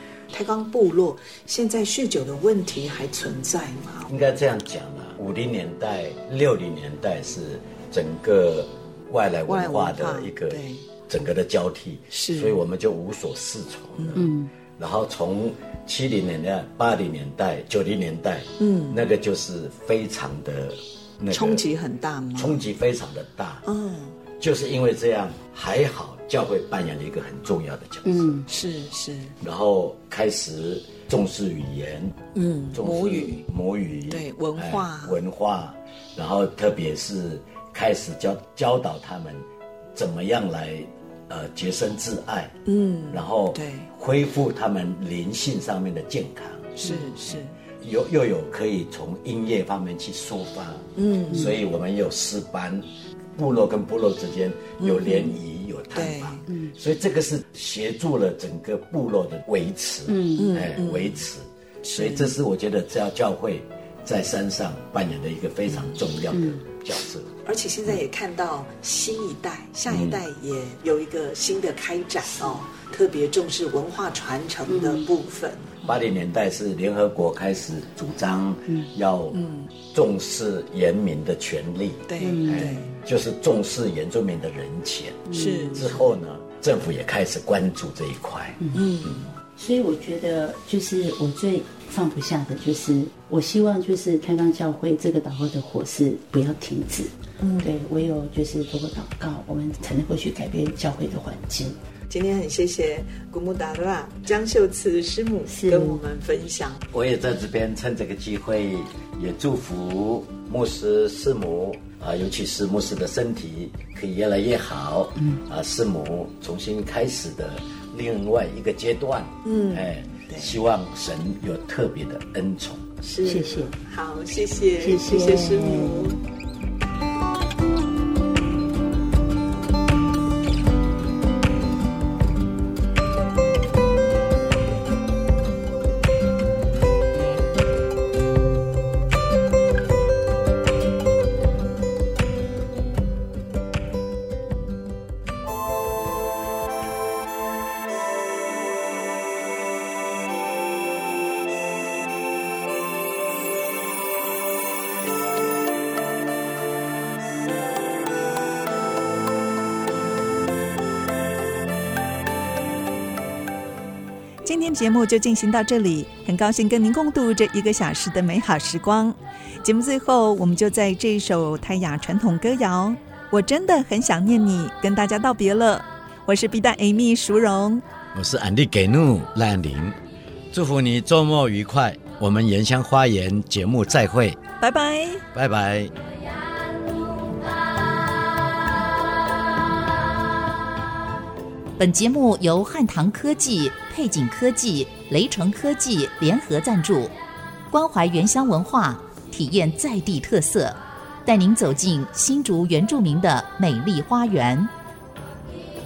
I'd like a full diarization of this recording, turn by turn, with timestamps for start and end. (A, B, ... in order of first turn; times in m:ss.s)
0:00.3-0:04.1 A
0:04.1-0:21.6 B
0:09.5-0:10.8 A
0:12.1-0:12.6 A
0:14.0-0:14.2 A
0:14.2-0:14.5 C
0:18.6-0:19.0 A
0:21.3-0:22.6 A
0:22.4-0:23.6 B
0:23.7-0:24.2 A
0:24.4-0:28.3 B
0:28.0-0:28.5 C
0:28.5-0:29.4 A
0:29.4-0:42.6 B
0:32.4-0:33.4 A
0:34.1-0:35.2 A
0:42.7-0:43.9 A
0:43.1-0:46.8 B
0:46.8-0:47.6 A
0:47.8-1:07.3 B
0:51.0-0:51.6 A
0:54.8-0:55.4 A
0:55.9-0:56.4 A
0:56.5-0:56.7 C
1:00.1-1:00.5 C
1:00.4-1:01.2 A
1:01.8-1:02.3 A
1:06.3-1:06.6 C
1:07.4-1:16.0 A
1:09.9-1:10.2 B
1:14.7-1:15.1 C
1:15.8-1:28.6 B
1:19.3-1:19.7 A
1:22.1-1:22.9 A
1:22.2-1:22.7 C
1:25.3-1:25.8 C
1:25.3-1:26.0 A
1:28.6-1:28.9 C
1:28.7-1:29.3 A
1:29.6-1:41.8 C
1:37.4-1:37.7 A
1:42.1-1:46.8 A
1:45.5-1:46.0 C
1:46.9-2:02.8 B
1:59.4-2:00.6 A
2:03.0-2:06.2 A
2:03.2-2:03.8 C
2:04.8-2:06.2 C
2:44.4-2:57.8 D
2:58.1-3:00.0 B
3:00.5-3:04.4 B
3:04.6-3:05.2 D
3:05.3-3:05.9 B
3:11.8-3:17.2 E
3:17.7-3:24.7 E